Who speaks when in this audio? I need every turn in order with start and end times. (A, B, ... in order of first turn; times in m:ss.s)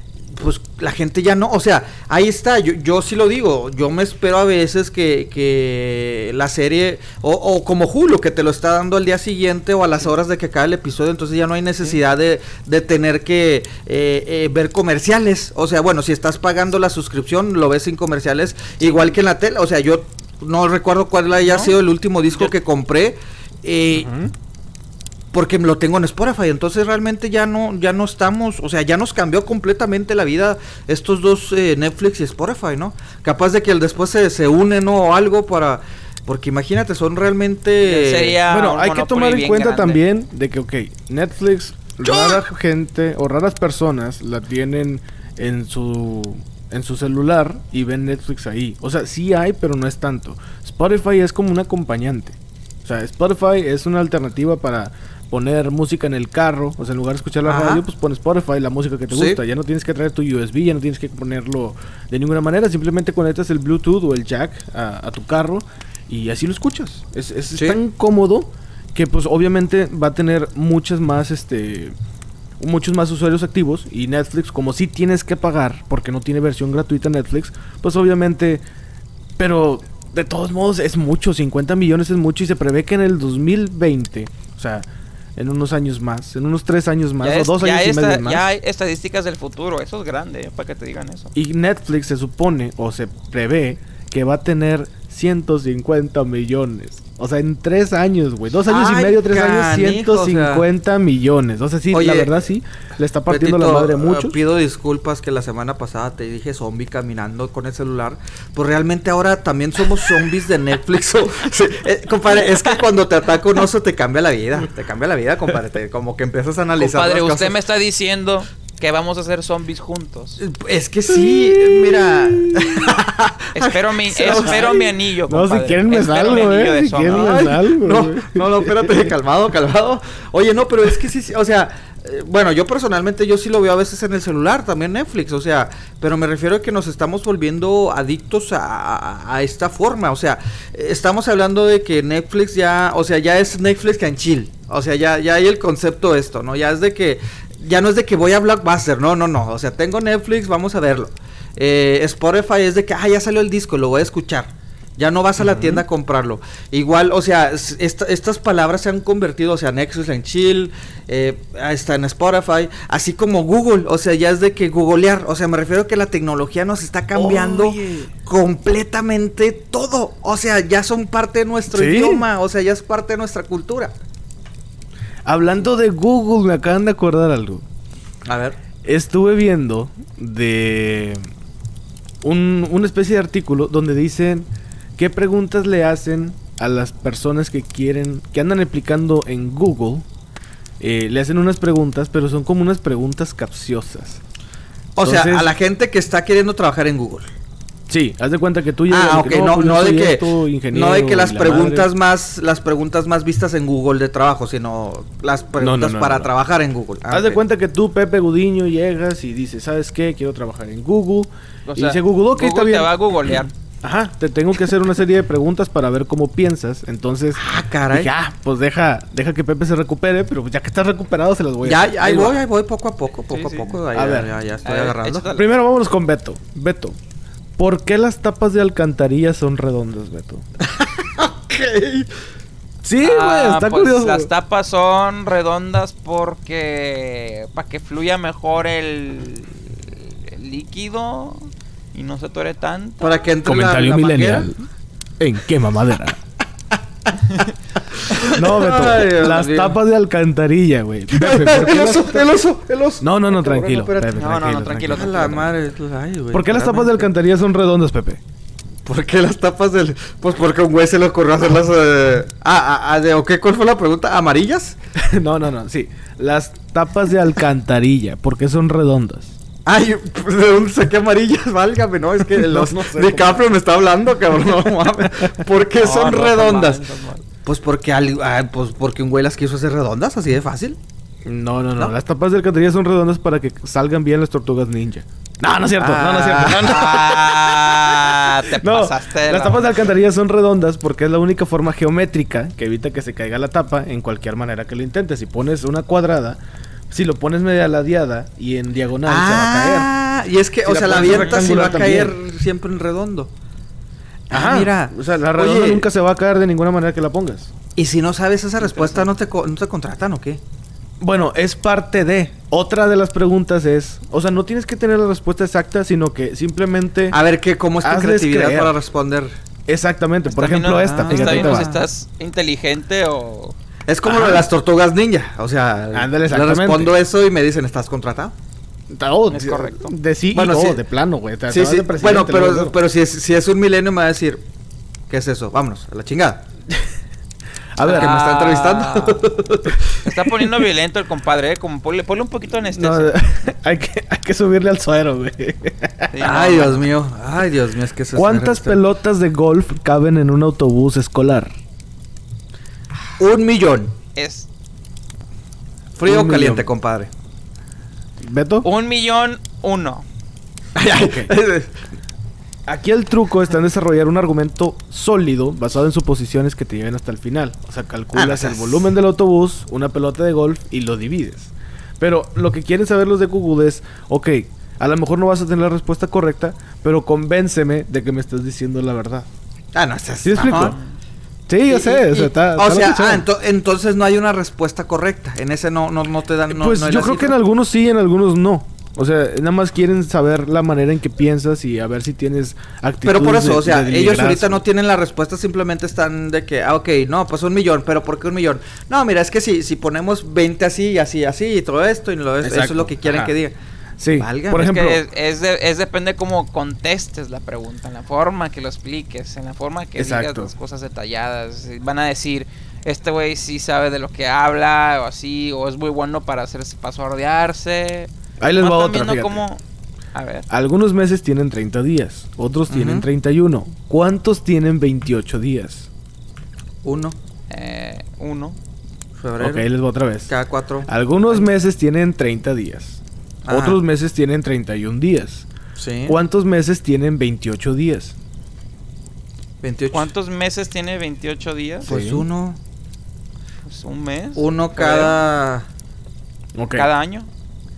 0:00.3-0:24.1 A
0:18.8-0:19.1 B
0:21.4-0:21.8 B
0:23.9-0:24.3 C
0:25.3-0:38.4 A
0:37.8-0:40.0 B
0:38.5-1:12.0 C
0:42.0-0:42.4 A
0:57.4-0:57.8 A
0:59.1-0:59.4 A
1:12.6-1:18.6 C
1:19.4-1:28.5 C
1:27.2-1:31.3 B
1:31.4-1:44.4 C
1:38.7-1:40.6 A
1:41.9-1:42.3 A
1:43.3-1:57.6 A
1:56.8-2:00.4 B
2:00.4-2:04.9 A
2:01.1-2:03.3 C
2:03.6-2:07.4 B
2:04.3-2:04.8 C
2:05.3-2:09.1 C
2:07.0-2:53.9 A
2:35.4-2:35.8 C
2:47.1-2:48.1 C
2:51.7-2:52.3 C
2:55.2-2:57.6 C
2:58.3-2:58.6 A
2:58.8-3:01.3 C
3:02.2-3:10.1 C
3:10.8-3:14.2 C
3:15.0-3:17.3 A
3:15.0-3:15.5 C
3:17.9-3:21.9 C
3:18.9-3:27.4 A
3:25.6-3:26.3 C
3:27.1-3:32.9 C
3:31.7-3:33.5 B
3:33.8-3:42.4 C
3:37.4-3:38.1 A
3:41.6-3:45.3 A
3:43.3-3:43.8 B
3:43.9-3:44.3 C
3:44.6-3:45.5 B
3:45.3-3:47.0 C
3:47.6-3:50.4 C
3:50.8-3:52.1 A
3:52.8-3:54.3 C
3:53.0-4:03.1 B
4:03.0-4:04.5 A
4:03.4-4:04.6 C
4:05.2-4:06.2 C
4:07.1-4:07.5 A
4:08.0-4:09.8 A
4:08.3-4:12.3 C
4:11.1-4:14.2 A
4:13.0-4:15.4 C
4:14.2-4:15.5 B
4:14.9-4:16.9 A
4:16.3-4:18.2 C
4:16.5-4:17.0 B
4:18.9-4:24.8 A
4:25.0-4:29.4 C
4:29.7-4:36.8 A
4:32.4-4:33.5 C
4:34.3-4:35.4 C
4:35.8-4:37.2 B
4:37.4-4:40.8 A
4:41.2-4:56.4 C
4:45.8-4:46.9 A
4:46.6-4:49.8 B
4:56.9-4:59.9 C
4:59.1-5:03.3 A
5:00.7-5:02.2 C
5:00.9-5:01.6 B
5:04.3-5:05.9 A
5:04.3-5:07.5 C
5:07.8-5:10.4 A
5:08.6-5:09.1 B
5:11.0-5:17.2 C
5:17.1-5:19.3 A
5:17.8-5:18.8 C
5:19.7-5:21.7 C
5:20.3-5:23.6 B
5:20.8-5:21.8 A
5:23.9-5:28.3 A
5:24.1-5:24.5 C
5:25.9-5:26.9 C
5:28.9-5:32.8 C
5:29.3-5:29.9 B
5:30.3-5:30.8 A
5:31.5-5:34.4 A
5:35.1-5:36.4 A
5:37.8-5:38.2 C
5:37.8-5:39.3 B
5:37.9-5:39.8 A
5:40.0-5:43.2 B
5:42.6-5:46.1 C
5:46.1-5:46.8 B
5:46.2-5:48.8 A
5:48.2-5:51.5 C
5:53.2-5:53.9 A
5:54.2-5:54.5 B
5:56.0-5:57.1 A
5:56.1-5:56.7 C
5:58.2-5:58.7 C
5:58.6-6:00.1 B
6:00.8-6:01.7 A
6:00.9-6:01.3 C
6:02.7-6:19.3 C
6:08.1-6:08.8 A
6:19.8-6:20.8 A
6:20.2-6:20.8 C
6:20.5-6:21.0 B
6:21.5-6:23.2 C
6:21.7-6:27.4 A
6:26.5-6:34.6 C
6:33.0-6:43.6 A
6:42.4-6:43.3 C
6:44.0-6:45.0 C
6:44.1-6:44.7 A
6:44.5-6:59.6 B
6:50.0-6:50.5 C
6:58.4-6:59.4 C
7:00.1-7:00.5 B
7:00.5-7:05.9 C
7:02.7-7:03.1 A
7:06.8-7:07.2 A
7:07.5-7:08.6 B
7:09.2-7:09.7 A
7:09.4-7:10.3 C
7:10.3-7:10.9 A
7:10.9-7:15.5 C
7:13.4-7:13.8 A
7:15.8-7:16.2 A
7:16.1-7:18.2 C
7:19.6-7:20.1 A
7:19.9-7:21.9 B
7:21.8-7:22.2 C
7:21.9-7:22.6 A
7:23.7-7:25.2 B
7:24.4-7:25.6 A
7:26.6-7:26.9 C
7:26.7-7:27.3 B